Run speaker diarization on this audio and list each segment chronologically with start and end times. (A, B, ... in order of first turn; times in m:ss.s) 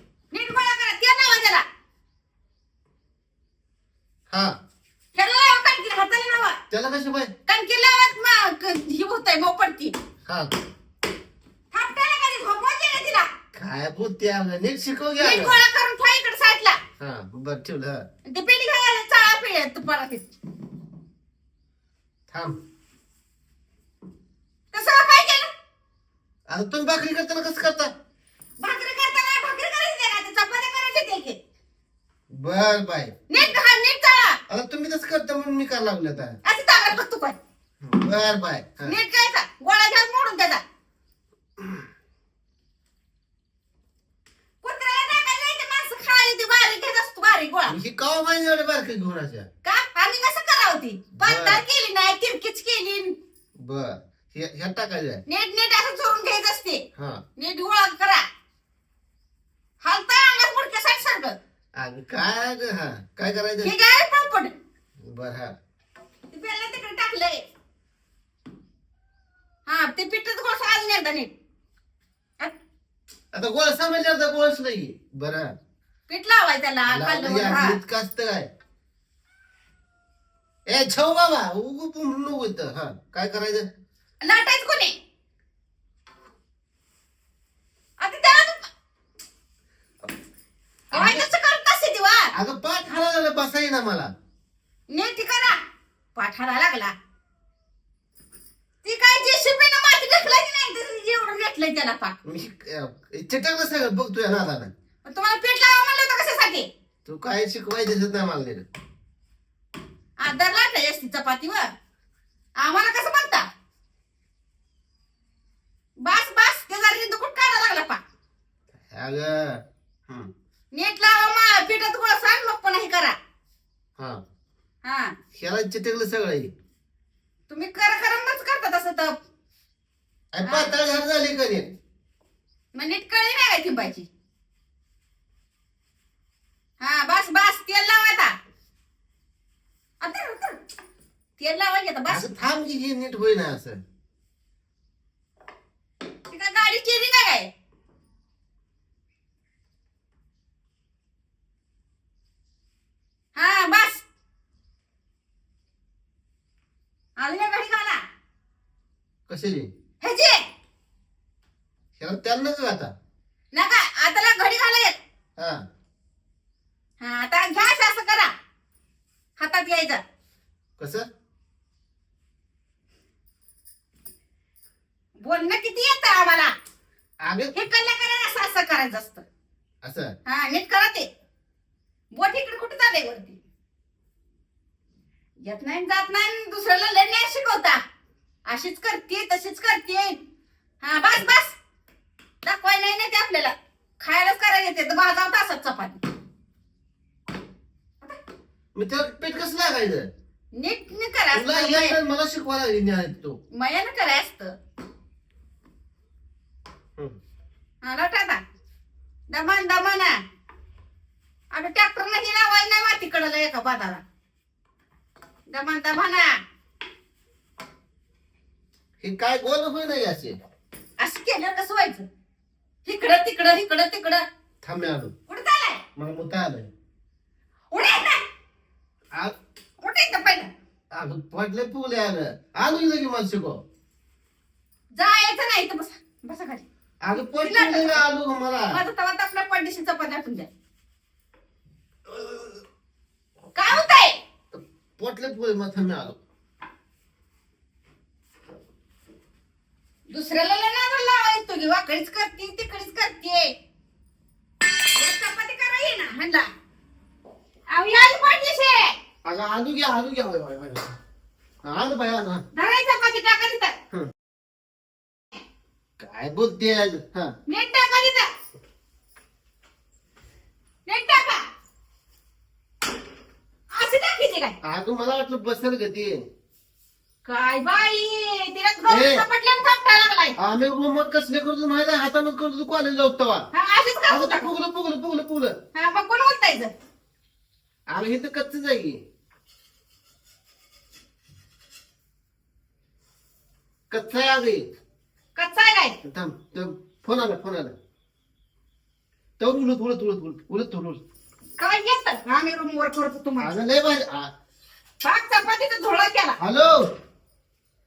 0:00.3-0:01.6 A
0:05.2-0:06.6 A
0:06.7-0:07.3 B
0:07.5-0:09.9 A
0:10.3-0:10.5 B
0:11.7-0:13.3 A
0:13.5-0:15.6 B
0:15.2-0:16.8 A
0:17.0-0:18.0 B
0:18.2-0:20.3 A
0:22.3-0:22.6 B
0:24.7-0:25.5 A
0:26.5-0:27.9 B
0:28.6-0:31.4 A
0:32.3-0:33.2 B
0:33.3-0:34.4 A
0:34.5-0:36.4 B
0:36.4-0:37.4 A
0:37.8-0:39.0 B
0:38.8-0:40.6 A
0:44.6-0:47.8 A
0:47.7-0:49.5 B
0:49.6-0:53.1 A
0:51.2-0:51.6 B
0:53.6-0:55.2 B
0:55.3-0:56.8 A
0:57.0-0:57.2 B
0:57.4-0:58.2 A
0:59.8-1:01.3 A
1:01.8-1:03.7 B
1:03.6-1:04.5 A
1:05.0-1:05.5 B
1:06.3-1:07.4 A
1:09.7-1:11.3 A
1:13.3-1:15.5 B
1:16.1-1:17.8 A
1:16.9-1:18.5 B
1:20.7-1:23.6 B
1:24.2-1:24.9 A
1:28.0-1:28.7 A
1:30.9-1:31.3 B
1:30.9-1:32.3 A
1:32.3-1:34.1 B
1:34.9-1:35.6 A
1:36.1-1:36.9 A
1:38.8-1:42.2 A
1:42.2-1:44.7 B
1:45.1-1:46.7 A
1:47.0-1:48.6 B
1:50.2-1:51.7 A
1:52.6-1:53.4 A
1:56.0-1:58.0 A
1:58.9-2:00.3 B
2:00.7-2:03.2 A
2:04.8-2:05.2 A
2:05.3-2:06.5 B
2:07.5-2:09.1 A
2:10.3-2:11.7 B
2:10.4-2:10.7 A
2:12.7-2:14.1 A
2:16.8-2:18.3 A
2:20.0-2:20.6 A
2:21.4-2:22.3 A
2:22.1-2:23.8 B
2:26.3-2:27.5 A
2:33.3-2:34.0 A
2:37.2-2:38.0 A
2:39.3-2:39.7 B
2:40.0-2:40.4 A
2:42.0-2:42.9 B
2:43.5-2:45.0 A
2:45.4-2:45.6 B
2:47.0-2:48.3 A
2:49.4-2:50.0 A
2:50.8-2:51.1 B
2:55.2-2:56.5 A
2:57.2-2:57.5 B
2:57.5-2:59.2 A
2:59.8-3:00.2 B
3:00.2-3:01.1 A
3:02.1-3:03.4 A
3:05.4-3:07.8 A
3:08.5-3:10.2 A
3:10.8-3:11.6 A
3:12.4-3:16.0 A
3:18.7-3:20.1 B
3:20.5-3:22.0 A
3:21.3-3:23.4 B
3:23.5-3:24.5 A
3:27.8-3:28.4 A
3:29.3-3:30.1 A
3:31.5-3:34.0 A
3:35.5-3:36.3 A
3:39.0-3:40.4 B
3:41.0-3:42.1 A
3:42.8-3:44.2 A
3:44.6-3:45.1 B
3:45.3-3:45.8 A
3:46.0-3:46.7 B
3:47.7-3:48.2 A
3:49.8-3:50.5 A
3:51.0-3:53.6 B
3:55.0-3:56.6 A
3:57.0-3:58.8 B
3:57.4-3:58.0 A
3:58.7-4:00.5 A
4:03.6-4:04.2 A
4:04.5-4:06.2 B
4:10.1-4:13.5 A
4:14.9-4:16.5 A
4:17.7-4:18.9 A
4:19.2-4:20.9 B
4:21.6-4:22.4 B
4:22.5-4:23.7 A
4:26.0-4:27.3 B
4:27.5-4:28.3 A
4:30.9-4:31.4 A
4:33.7-4:34.6 A
4:34.6-4:36.2 B
4:37.2-4:40.4 A
4:38.9-4:39.2 B
4:40.4-4:43.5 B
4:43.5-4:44.5 A
4:44.1-4:45.6 B
4:45.7-4:46.7 A
4:47.9-4:49.0 B
4:53.9-4:54.6 B
4:55.4-4:56.0 A
4:56.0-4:57.7 B
4:59.4-5:01.0 B
5:01.6-5:03.5 A
5:03.4-5:04.3 B
5:05.0-5:06.4 A
5:06.4-5:06.9 B